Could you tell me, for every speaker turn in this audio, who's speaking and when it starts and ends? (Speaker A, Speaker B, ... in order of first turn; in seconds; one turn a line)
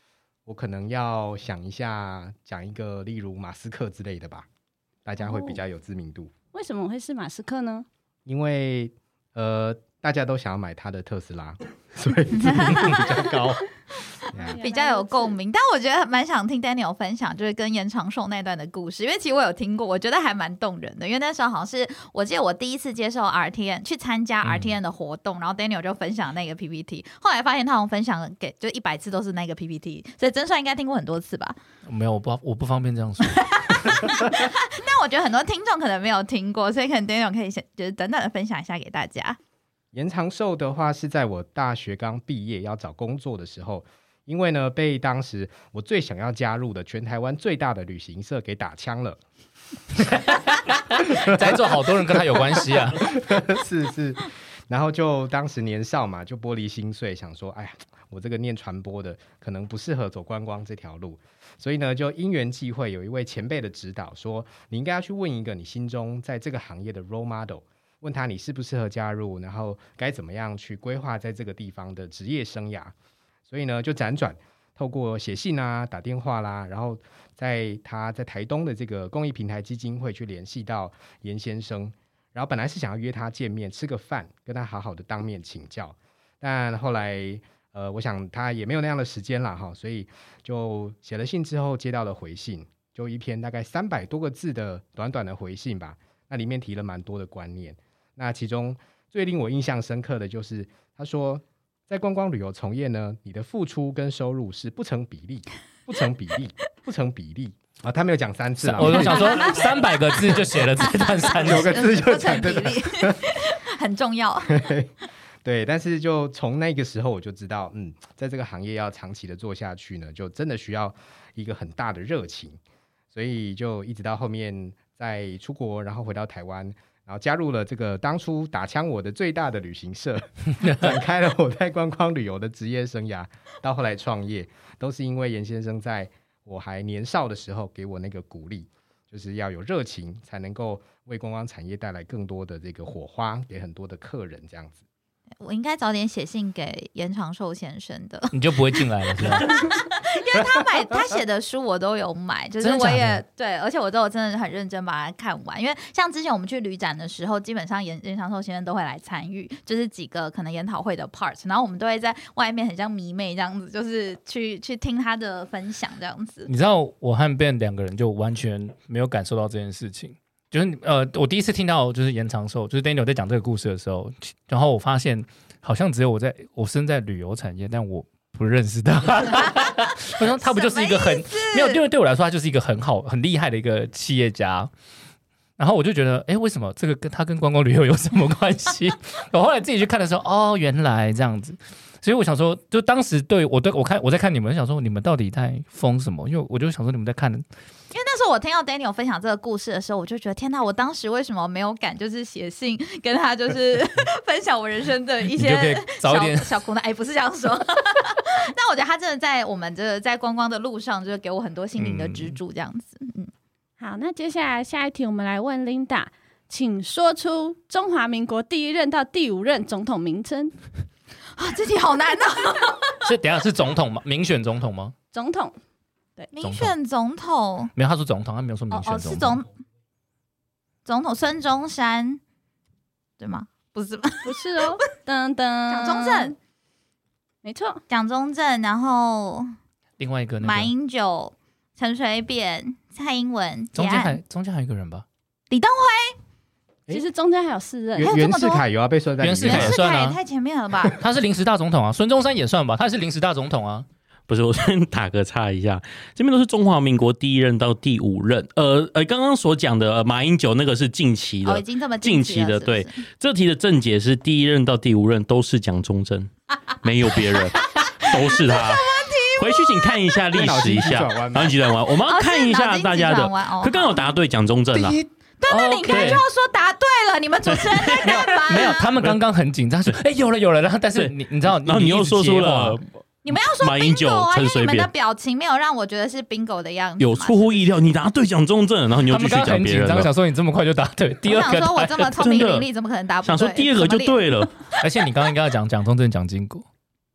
Speaker A: 0.5-4.5
Speaker A: 5.0-6.3
Speaker B: 5.2-5.6
Speaker B: 6.5-7.9
Speaker A: 8.2-13.7
Speaker C: 12.4-12.9
Speaker A: 14.3-14.6
Speaker B: 14.3-15.4
Speaker C: 14.6-31.6
Speaker D: 24.4-24.8
Speaker D: 31.9-34.2
Speaker C: 33.3-39.4
Speaker A: 39.9-49.2
Speaker D: 50.0-53.1
Speaker A: 51.0-51.6
Speaker A: 52.4-72.9
Speaker A: 73.5-109.6
Speaker D: 108.6-111.8
Speaker C: 108.9-109.6
Speaker C: 110.9-114.7
Speaker A: 111.2-113.2
Speaker A: 114.5-114.9
Speaker A: 115.4-122.6
Speaker A: 123.1-144.8
Speaker C: 145.4-166.5
Speaker D: 148.3-149.6
Speaker D: 152.6-153.2
Speaker D: 166.5-184.7
Speaker C: 180.2-181.8
Speaker D: 185.6-197.4
Speaker C: 197.9-213.3
Speaker D: 205.3-206.5
Speaker D: 211.8-212.4
Speaker B: 213.8-220.5
Speaker C: 221.4-223.0
Speaker D: 223.0-224.9
Speaker B: 225.1-225.5
Speaker C: 226.3-227.7
Speaker D: 226.4-226.7
Speaker D: 227.8-229.4
Speaker C: 228.7-229.5
Speaker C: 230.9-232.2
Speaker C: 233.2-234.7
Speaker B: 234.2-236.3
Speaker C: 235.7-236.3
Speaker B: 237.4-237.8
Speaker C: 237.9-239.5
Speaker D: 240.0-240.7
Speaker C: 240.4-244.2
Speaker D: 243.8-245.1
Speaker C: 245.5-246.2
Speaker B: 246.9-248.2
Speaker A: 248.0-249.8
Speaker C: 248.0-248.6
Speaker D: 249.2-250.2
Speaker C: 249.4-251.0
Speaker D: 250.9-253.9
Speaker E: 254.3-266.3
Speaker C: 261.4-263.0
Speaker E: 266.8-275.0
Speaker C: 268.1-269.9
Speaker A: 270.3-271.6
Speaker C: 272.0-274.1
Speaker C: 275.4-278.9
Speaker D: 275.5-276.2
Speaker E: 275.9-276.2
Speaker E: 277.5-278.2
Speaker D: 278.0-282.8
Speaker E: 280.9-284.9
Speaker C: 283.2-287.6
Speaker E: 287.0-290.1
Speaker D: 289.0-292.1
Speaker C: 291.2-294.4
Speaker E: 292.2-292.7
Speaker E: 293.2-294.5
Speaker D: 294.8-296.7